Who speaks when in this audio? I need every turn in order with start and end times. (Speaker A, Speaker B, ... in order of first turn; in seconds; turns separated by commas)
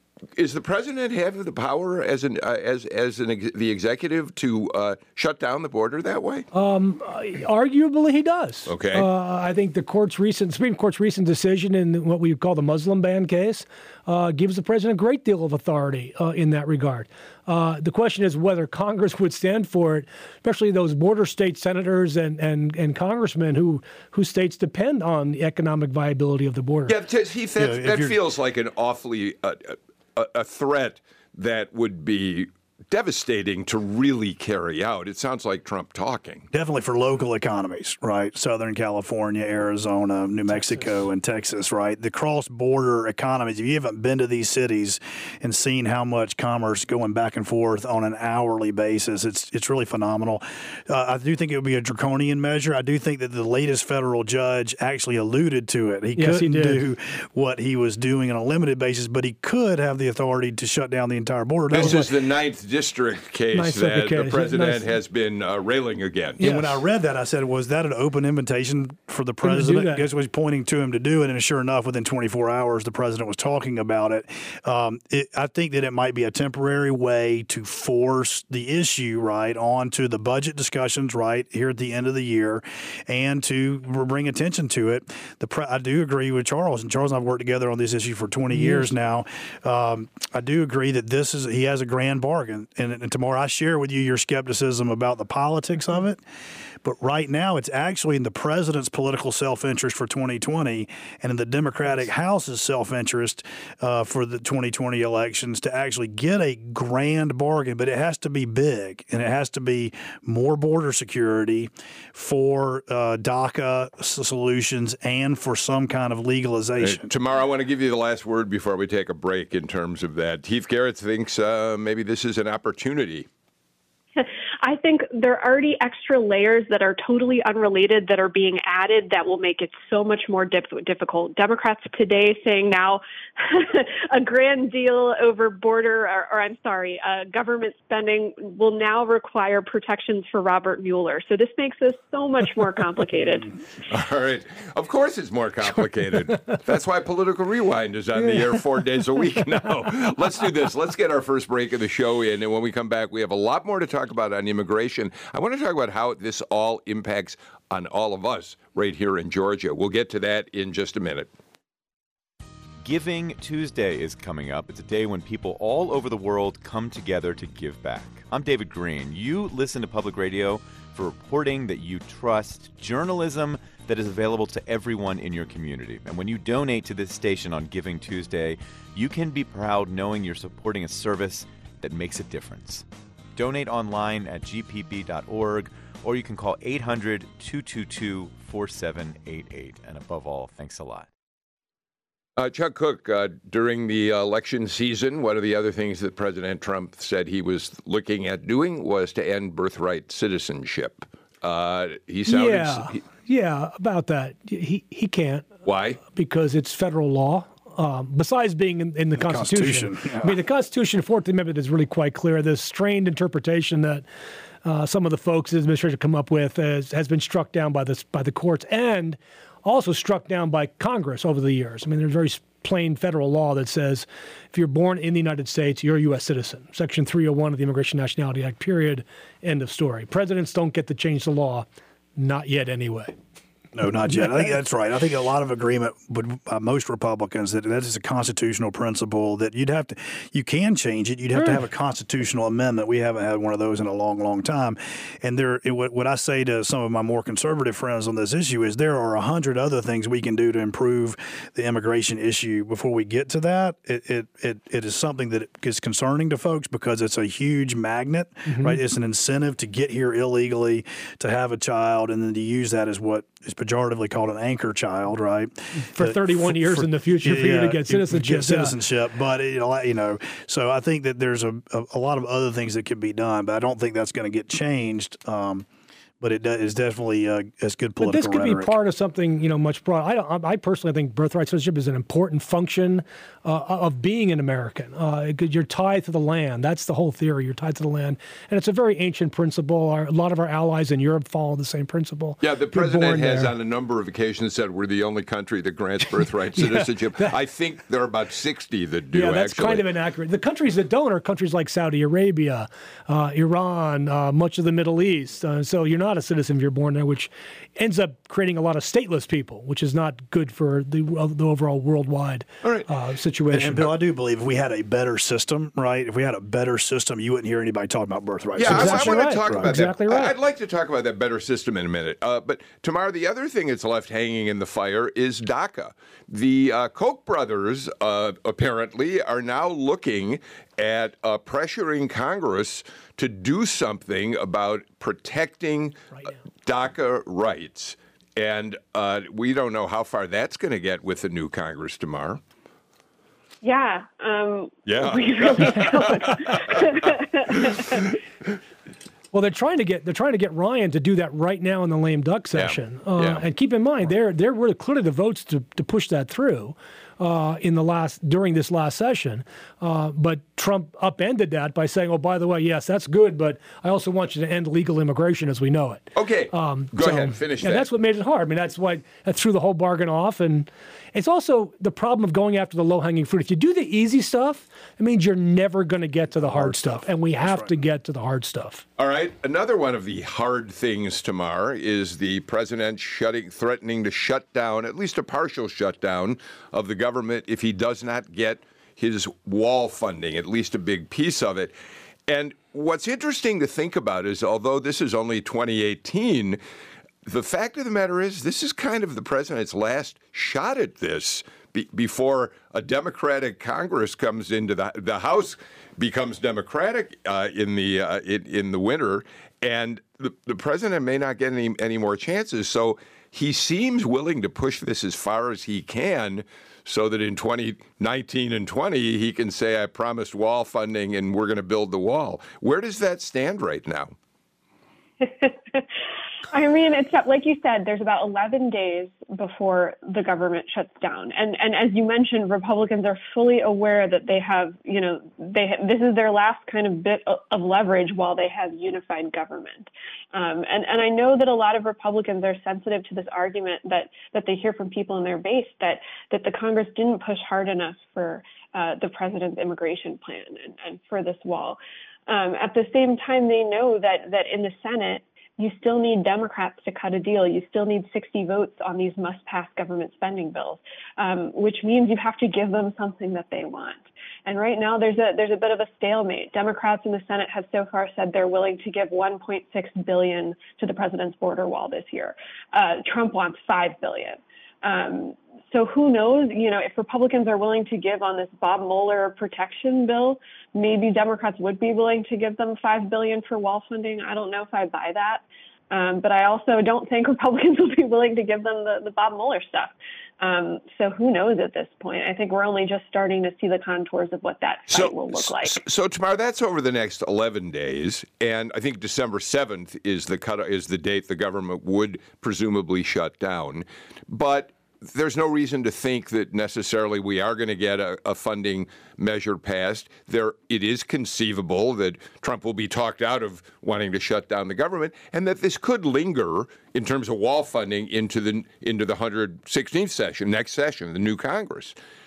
Speaker A: 0.3-6.5, Speaker B: 6.5-26.9, Speaker A: 8.7-9.1, Speaker A: 26.9-36.5, Speaker C: 27.6-28.2, Speaker C: 36.5-62.0, Speaker B: 56.1-56.8, Speaker A: 61.7-66.4, Speaker B: 61.8-62.1, Speaker B: 63.5-64.8, Speaker B: 66.4-66.8, Speaker C: 66.4-96.2, Speaker B: 69.4-70.0, Speaker B: 88.5-88.9, Speaker C: 96.8-117.1, Speaker A: 116.8-123.3, Speaker D: 124.2-143.5, Speaker A: 143.9-161.3, Speaker E: 162.8-191.1, Speaker A: 192.4-203.0, Speaker B: 202.3-205.5, Speaker A: 205.6-206.0, Speaker B: 206.1-214.0, Speaker C: 209.1-210.4, Speaker B: 214.6-231.7, Speaker B: 232.2-233.1, Speaker C: 233.7-275.6, Speaker B: 241.3-241.6, Speaker B: 258.5-258.8, Speaker B: 265.9-268.8, Speaker C: 276.2-278.8, Speaker B: 278.0-293.5, Speaker A: 292.4-299.8, Speaker B: 296.6-297.3, Speaker B: 299.1-313.9, Speaker A: 312.6-312.9, Speaker C: 313.5-319.7, Speaker A: 318.6-342.4, Speaker B: 318.7-320.3, Speaker D: 343.6-348.1, Speaker A: 344.9-348.1, Speaker B: 349.3-378.8, Speaker A: 352.5-353.4, Speaker A: 366.1-367.9, Speaker C: 376.5-377.8, Speaker A: 379.0-391.7, Speaker A: 392.3-396.6, Speaker A: 397.2-424.1, Speaker D: 425.2-425.9, Speaker D: 426.5-495.8, Speaker A: 494.9-522.0